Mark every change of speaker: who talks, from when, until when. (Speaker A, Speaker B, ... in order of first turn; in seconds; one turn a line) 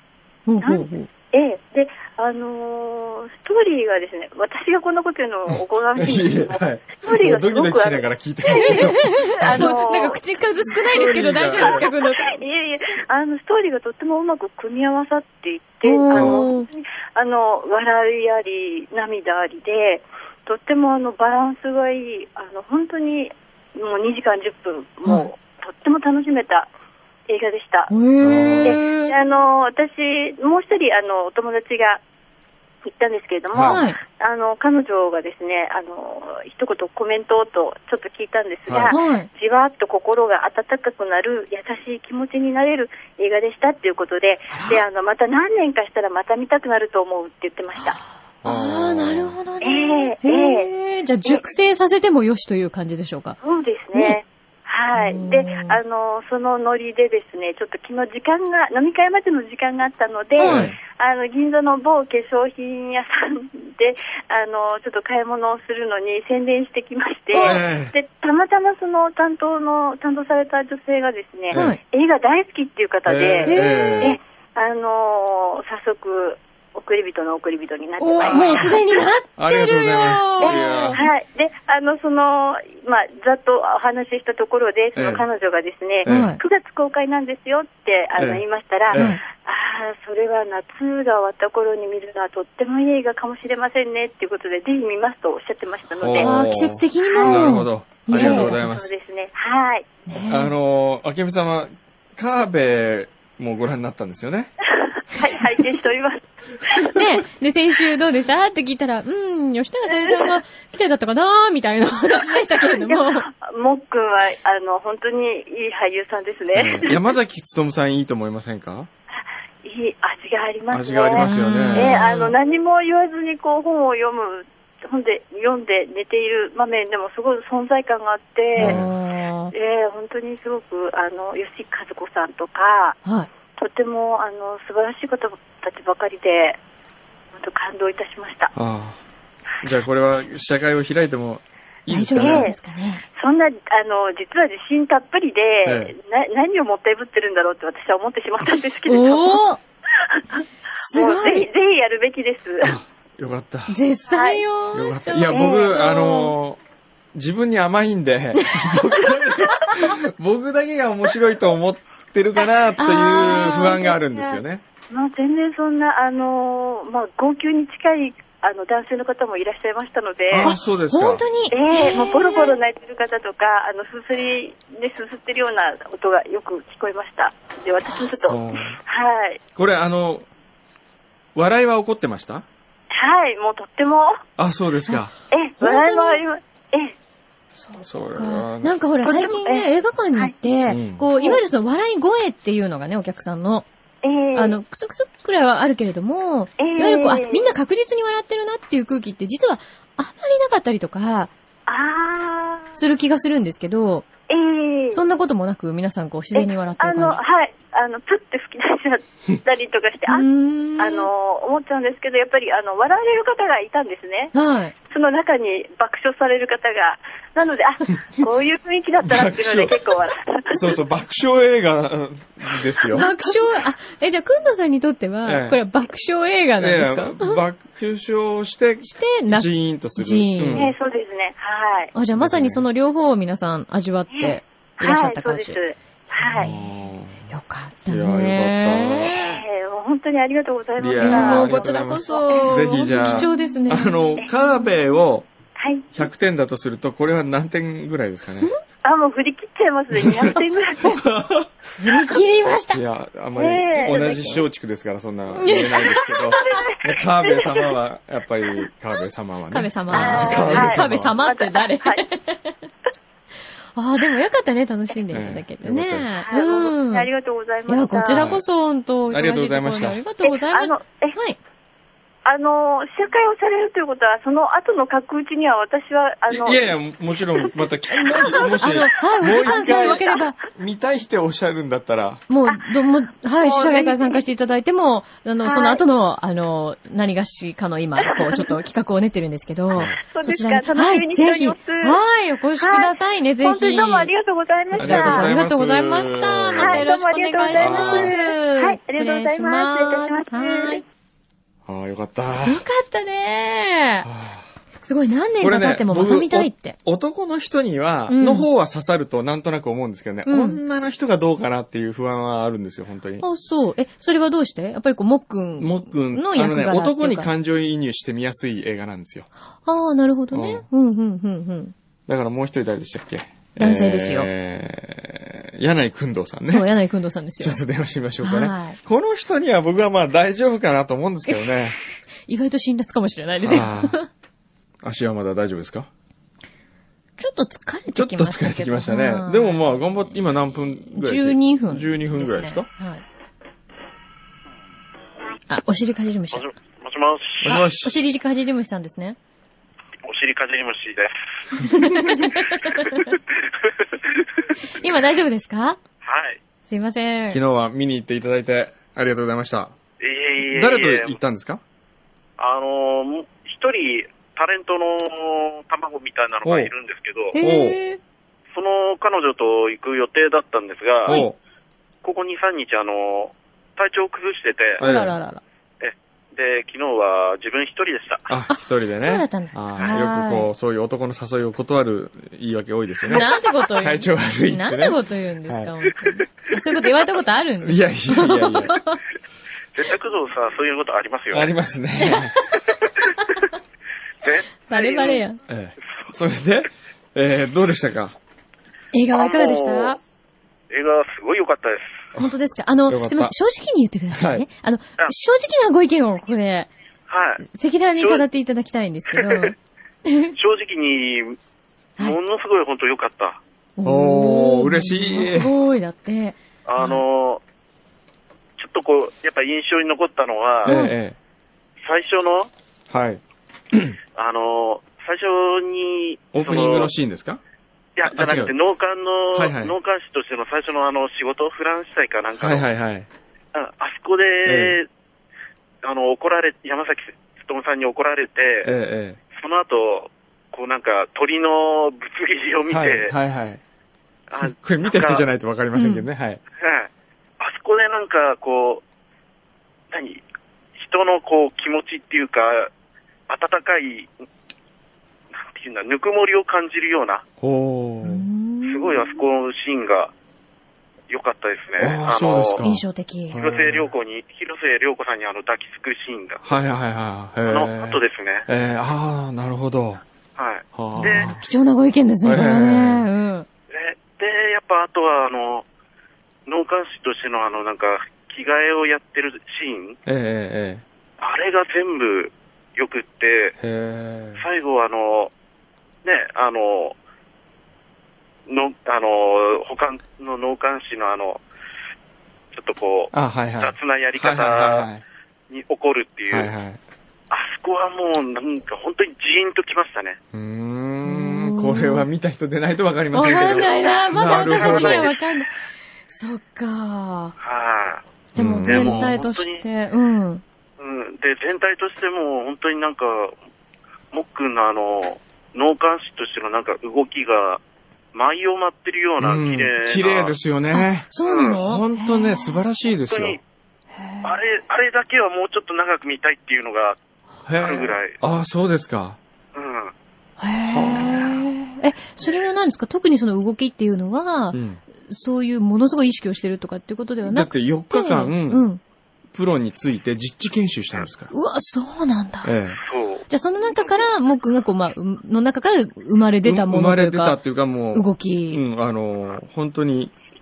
Speaker A: 0.5-1.1
Speaker B: 0.6-10.2
Speaker C: 5.5-9.7
Speaker A: 8.5-12.4
Speaker C: 10.7-11.9
Speaker B: 11.6-26.7
Speaker A: 15.8-16.7
Speaker C: 16.1-16.4
Speaker B: 27.3-27.9
Speaker A: 27.9-29.2
Speaker C: 28.2-28.8
Speaker B: 28.6-32.0
Speaker B: 32.8-48.0
Speaker C: 33.5-33.8
Speaker A: 33.6-34.0
Speaker C: 38.7-39.0
Speaker A: 38.9-39.3
Speaker A: 44.5-44.8
Speaker A: 47.8-53.4
Speaker C: 48.4-49.4
Speaker B: 49.6-50.7
Speaker B: 53.4-79.0
Speaker A: 53.9-54.2
Speaker A: 54.9-55.8
Speaker A: 60.4-60.8
Speaker C: 60.4-60.8
Speaker C: 67.3-68.0
Speaker A: 71.5-71.8
Speaker C: 73.1-74.2
Speaker A: 73.5-74.2
Speaker A: 78.0-81.1
Speaker C: 78.2-78.7
Speaker C: 79.4-81.0
Speaker B: 80.4-96.4
Speaker C: 85.0-85.3
Speaker C: 86.0-86.3
Speaker A: 86.1-86.4
Speaker C: 88.2-89.1
Speaker A: 88.9-89.2
Speaker C: 96.0-98.9
Speaker A: 96.2-98.6
Speaker B: 97.1-97.6
Speaker B: 98.1-99.9
Speaker A: 100.1-100.5
Speaker C: 100.2-104.5
Speaker B: 104.8-107.0
Speaker A: 106.9-113.3
Speaker B: 109.9-110.3
Speaker B: 112.6-117.0
Speaker C: 116.5-118.9
Speaker B: 119.2-128.8
Speaker C: 120.7-122.2
Speaker A: 121.1-122.3
Speaker A: 128.6-129.5
Speaker C: 128.6-128.9
Speaker B: 129.5-133.0
Speaker A: 133.1-133.3
Speaker B: 133.6-136.6
Speaker B: 137.3-138.5
Speaker C: 138.6-139.0
Speaker C: 139.6-142.5
Speaker A: 141.9-143.1
Speaker B: 142.2-142.6
Speaker B: 143.2-149.4
Speaker C: 145.7-145.9
Speaker A: 148.8-149.6
Speaker B: 150.1-152.8
Speaker A: 150.8-151.5
Speaker C: 152.6-153.8
Speaker A: 153.7-156.3
Speaker B: 154.1-154.4
Speaker C: 154.7-156.6
Speaker B: 155.3-156.0
Speaker C: 157.1-164.6
Speaker A: 158.3-158.8
Speaker A: 162.8-164.3
Speaker B: 164.9-170.6
Speaker C: 170.3-171.2
Speaker A: 170.4-172.6
Speaker B: 171.5-179.4
Speaker A: 177.9-178.2
Speaker C: 178.2-178.8
Speaker C: 179.6-180.3
Speaker C: 181.3-182.5
Speaker B: 182.9-184.2
Speaker C: 184.4-186.0
Speaker B: 185.3-186.9
Speaker A: 187.6-193.7
Speaker C: 187.8-188.8
Speaker B: 189.0-190.3
Speaker C: 190.7-191.0
Speaker B: 191.1-191.4
Speaker B: 194.0-194.6
Speaker A: 194.3-201.3
Speaker B: 196.6-197.5
Speaker B: 201.7-202.8
Speaker A: 202.7-204.1
Speaker B: 204.3-205.0
Speaker A: 204.9-207.2
Speaker B: 206.3-214.3
Speaker A: 210.1-211.1
Speaker A: 214.3-214.7
Speaker B: 214.9-220.7
Speaker C: 219.0-219.8
Speaker C: 220.5-223.1
Speaker B: 222.8-223.4
Speaker A: 222.9-227.4
Speaker C: 225.2-225.6
Speaker C: 226.6-230.8
Speaker A: 228.8-230.7
Speaker B: 230.5-231.9
Speaker A: 231.9-235.6
Speaker C: 232.2-232.6
Speaker B: 234.1-236.5
Speaker A: 236.3-236.6
Speaker C: 236.4-237.2
Speaker A: 237.3-239.4
Speaker C: 237.9-239.2
Speaker B: 239.1-243.4
Speaker C: 240.8-245.3
Speaker A: 241.0-244.1
Speaker B: 245.6-246.0
Speaker C: 245.9-248.5
Speaker B: 248.8-251.0
Speaker C: 249.9-251.5
Speaker A: 251.8-252.8
Speaker C: 252.7-261.1
Speaker B: 253.3-254.2
Speaker A: 253.8-254.5
Speaker A: 255.3-256.6
Speaker B: 255.9-257.8
Speaker A: 259.5-262.6
Speaker B: 259.9-262.0
Speaker A: 263.8-267.1
Speaker C: 265.1-266.3
Speaker B: 266.2-268.3
Speaker A: 267.7-271.4
Speaker C: 268.1-268.4
Speaker C: 269.1-270.0
Speaker B: 270.2-271.2
Speaker B: 272.2-276.8
Speaker C: 276.3-282.2
Speaker A: 278.0-280.4
Speaker B: 278.1-280.2
Speaker A: 282.3-294.1
Speaker B: 283.4-284.2
Speaker B: 285.4-285.8
Speaker B: 288.1-288.5
Speaker C: 289.7-290.0
Speaker B: 290.0-292.0
Speaker B: 292.6-292.9
Speaker B: 293.4-295.3
Speaker A: 294.7-300.8
Speaker C: 294.8-296.9
Speaker B: 296.6-300.8
Speaker C: 297.5-298.2
Speaker C: 301.7-302.6
Speaker A: 302.4-304.1
Speaker C: 304.0-304.4
Speaker A: 304.8-306.8
Speaker C: 305.4-313.2
Speaker A: 308.1-308.5
Speaker A: 310.3-310.6
Speaker A: 313.2-317.3
Speaker C: 315.6-319.3
Speaker A: 319.6-321.7
Speaker C: 320.3-320.6
Speaker C: 322.1-326.7
Speaker A: 323.6-324.3
Speaker A: 326.5-327.6
Speaker C: 327.4-331.8
Speaker A: 328.2-328.8
Speaker A: 331.3-331.6
Speaker A: 332.3-334.1
Speaker C: 333.4-334.0
Speaker C: 334.8-335.9
Speaker A: 337.2-339.9
Speaker C: 337.9-342.7
Speaker A: 340.9-343.0
Speaker A: 345.5-346.5
Speaker D: 346.3-347.6
Speaker C: 347.4-347.9
Speaker A: 347.5-349.2
Speaker D: 350.0-354.4
Speaker A: 351.6-353.1
Speaker A: 354.6-355.8
Speaker D: 356.0-356.4
Speaker A: 356.7-357.4
Speaker C: 357.3-359.8
Speaker D: 360.0-361.2
Speaker C: 360.4-361.6
Speaker D: 362.4-367.3
Speaker C: 366.4-366.7
Speaker A: 367.3-368.0
Speaker C: 367.3-367.8
Speaker D: 368.5-371.2
Speaker C: 371.1-371.4
Speaker D: 372.0-374.8
Speaker C: 374.8-375.2
Speaker A: 374.8-375.4
Speaker D: 375.8-378.3
Speaker C: 378.3-385.7
Speaker A: 378.5-380.5
Speaker A: 383.1-389.0
Speaker C: 387.6-388.8
Speaker D: 389.8-391.5
Speaker C: 391.3-392.4
Speaker A: 392.0-392.6
Speaker D: 394.2-395.2
Speaker A: 394.7-395.4
Speaker C: 395.5-398.2
Speaker A: 398.9-400.0
Speaker D: 399.1-400.0
Speaker D: 400.7-402.0
Speaker A: 402.2-406.7
Speaker C: 402.9-403.4
Speaker C: 404.1-404.5
Speaker D: 407.1-407.4
Speaker A: 407.4-410.4
Speaker D: 408.0-408.2
Speaker D: 409.1-409.5
Speaker D: 410.4-411.4
Speaker D: 412.0-413.4
Speaker A: 413.8-417.0
Speaker C: 413.8-415.5
Speaker D: 416.7-417.4
Speaker D: 418.6-420.8
Speaker C: 420.6-421.2
Speaker A: 420.7-420.9
Speaker D: 421.8-422.5
Speaker C: 422.9-424.0
Speaker D: 424.2-426.9
Speaker C: 426.3-427.4
Speaker D: 428.0-432.7
Speaker C: 428.1-428.5
Speaker C: 429.3-429.8
Speaker C: 432.4-433.1
Speaker D: 433.5-434.9
Speaker C: 434.4-434.8
Speaker D: 435.8-438.7
Speaker C: 438.6-439.2
Speaker D: 439.3-443.1
Speaker C: 442.7-443.6
Speaker D: 444.3-445.2
Speaker C: 444.4-446.4
Speaker A: 445.8-446.1
Speaker D: 446.6-446.9
Speaker D: 447.4-448.8
Speaker D: 449.9-450.2
Speaker D: 450.8-452.7
Speaker D: 453.3-454.1
Speaker D: 455.4-457.2
Speaker C: 457.4-458.3
Speaker A: 458.0-459.2
Speaker D: 458.6-460.1
Speaker D: 461.1-462.6
Speaker C: 461.8-463.9
Speaker A: 462.6-463.4
Speaker D: 463.4-466.4
Speaker C: 466.4-470.0
Speaker D: 467.5-468.5
Speaker D: 470.4-471.3
Speaker C: 470.7-471.4
Speaker A: 470.9-473.5
Speaker C: 472.2-473.1
Speaker D: 473.7-475.6
Speaker D: 476.5-480.0
Speaker C: 480.1-480.8
Speaker D: 481.2-483.6
Speaker C: 483.6-484.4
Speaker D: 484.4-485.3
Speaker D: 486.0-486.9
Speaker D: 488.5-491.4
Speaker D: 492.5-494.9
Speaker C: 493.1-495.0
Speaker D: 495.5-496.5
Speaker C: 496.3-496.8
Speaker D: 497.3-500.2
Speaker C: 500.3-505.1
Speaker A: 501.1-502.1
Speaker A: 503.1-505.5
Speaker D: 504.3-505.2
Speaker A: 506.1-507.4
Speaker D: 507.4-508.0
Speaker A: 508.3-510.4
Speaker C: 508.4-509.1
Speaker D: 508.6-509.6
Speaker D: 510.8-513.4
Speaker D: 514.1-517.6
Speaker D: 518.1-520.4
Speaker C: 519.2-523.4
Speaker A: 520.7-522.6
Speaker D: 521.3-521.6
Speaker D: 523.1-523.4
Speaker A: 524.0-524.4
Speaker D: 524.2-527.0
Speaker C: 527.5-529.2
Speaker D: 527.6-528.2
Speaker D: 529.5-529.9
Speaker A: 530.4-538.8
Speaker C: 530.7-531.4
Speaker C: 534.5-534.8
Speaker C: 537.3-538.7
Speaker C: 539.3-541.3
Speaker A: 541.3-542.5
Speaker C: 542.4-542.8
Speaker D: 542.8-543.2
Speaker A: 543.3-547.4
Speaker C: 546.4-550.1
Speaker A: 547.9-548.6